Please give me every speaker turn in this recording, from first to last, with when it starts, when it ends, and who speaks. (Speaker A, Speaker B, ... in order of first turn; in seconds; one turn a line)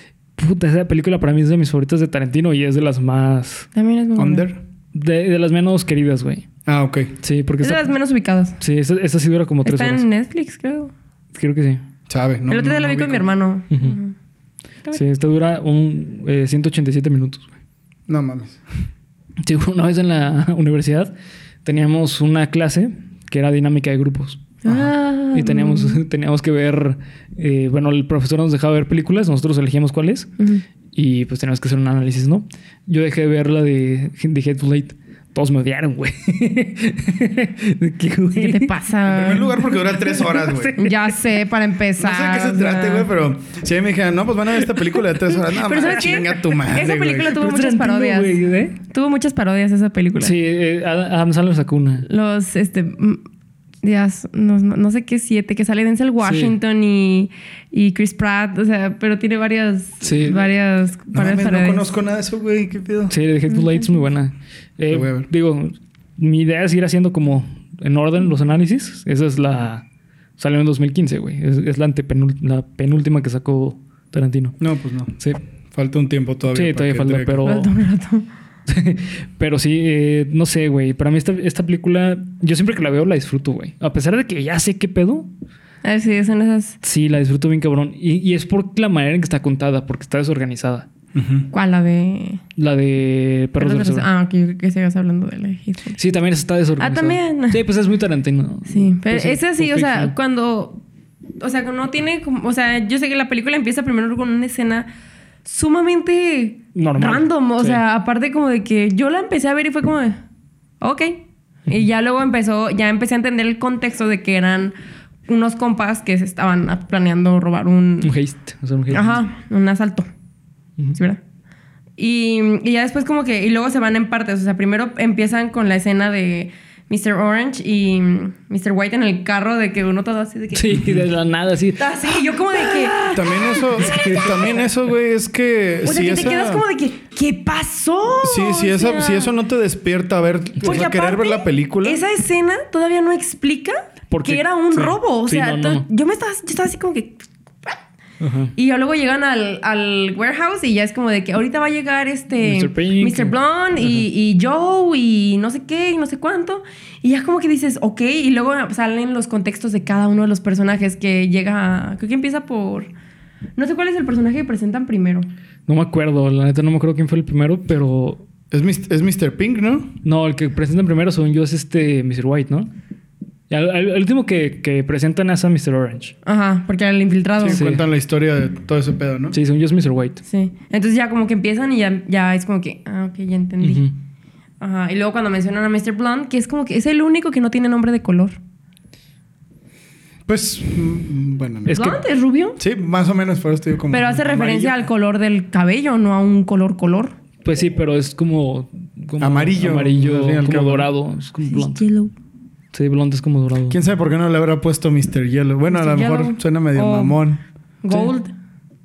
Speaker A: 0.4-3.7
Speaker B: 3.7-4.5
Speaker C: 4.2-4.6
Speaker A: 4.9-6.5
Speaker C: 6.7-7.1
Speaker A: 7.2-7.9
Speaker B: 7.6-8.6
Speaker A: 8.6-10.0
Speaker B: 9.6-10.9
Speaker A: 11.3-11.8
Speaker C: 12.1-13.3
Speaker B: 12.5-14.1
Speaker A: 13.7-13.9
Speaker A: 14.9-17.5
Speaker C: 18.1-18.6
Speaker A: 19.4-21.1
Speaker A: 21.6-24.6
Speaker B: 24.6-26.0
Speaker A: 25.3-30.3
Speaker B: 30.4-30.6
Speaker A: 30.9-38.7
Speaker B: 38.3-39.7
Speaker C: 39.1-40.7
Speaker A: 40.2-41.1
Speaker B: 40.8-43.1
Speaker C: 42.0-47.4
Speaker B: 45.4-50.3
Speaker A: 47.2-48.8
Speaker A: 50.2-52.1
Speaker B: 52.1-53.2
Speaker B: 53.8-61.9
Speaker A: 56.2-56.5
Speaker A: 60.0-60.4
Speaker C: 61.1-63.1
Speaker A: 63.1-69.8
Speaker B: 63.5-64.1
Speaker C: 64.9-65.3
Speaker A: 70.4-74.6
Speaker C: 74.6-75.2
Speaker C: 75.7-77.4
Speaker A: 76.5-77.7
Speaker B: 77.4-78.2
Speaker A: 78.7-85.3
Speaker B: 85.8-86.8
Speaker A: 86.8-90.9
Speaker C: 91.1-91.5
Speaker B: 91.5-92.4
Speaker A: 92.5-94.1
Speaker B: 93.6-96.0
Speaker A: 96.0-100.1
Speaker B: 96.8-97.6
Speaker B: 98.7-100.8
Speaker B: 101.4-104.9
Speaker B: 105.4-110.2
Speaker A: 106.7-107.8
Speaker B: 110.8-114.7
Speaker B: 115.3-118.1
Speaker A: 118.0-119.2
Speaker B: 118.9-120.1
Speaker B: 122.0-130.9
Speaker A: 130.5-134.4
Speaker C: 130.7-131.0
Speaker B: 131.8-134.6
Speaker C: 133.1-136.6
Speaker B: 135.8-139.3
Speaker C: 138.2-142.0
Speaker B: 140.6-147.8
Speaker A: 144.1-145.8
Speaker A: 148.2-148.5
Speaker B: 148.6-162.9
Speaker A: 152.4-154.0
Speaker B: 163.6-165.3
Speaker A: 165.7-168.2
Speaker C: 168.5-169.9
Speaker A: 170.0-172.7
Speaker A: 173.5-176.1
Speaker B: 176.2-177.6
Speaker C: 177.4-179.3
Speaker A: 177.5-177.8
Speaker A: 179.3-180.2
Speaker B: 180.2-183.9
Speaker A: 183.6-183.9
Speaker B: 184.6-188.4
Speaker C: 190.3-191.8
Speaker A: 191.6-192.0
Speaker B: 191.7-192.6
Speaker C: 192.6-194.7
Speaker B: 193.9-197.1
Speaker A: 197.4-201.9
Speaker C: 199.2-200.9
Speaker B: 201.4-202.1
Speaker A: 202.7-203.8
Speaker C: 203.7-207.4
Speaker B: 205.7-207.2
Speaker B: 207.8-208.3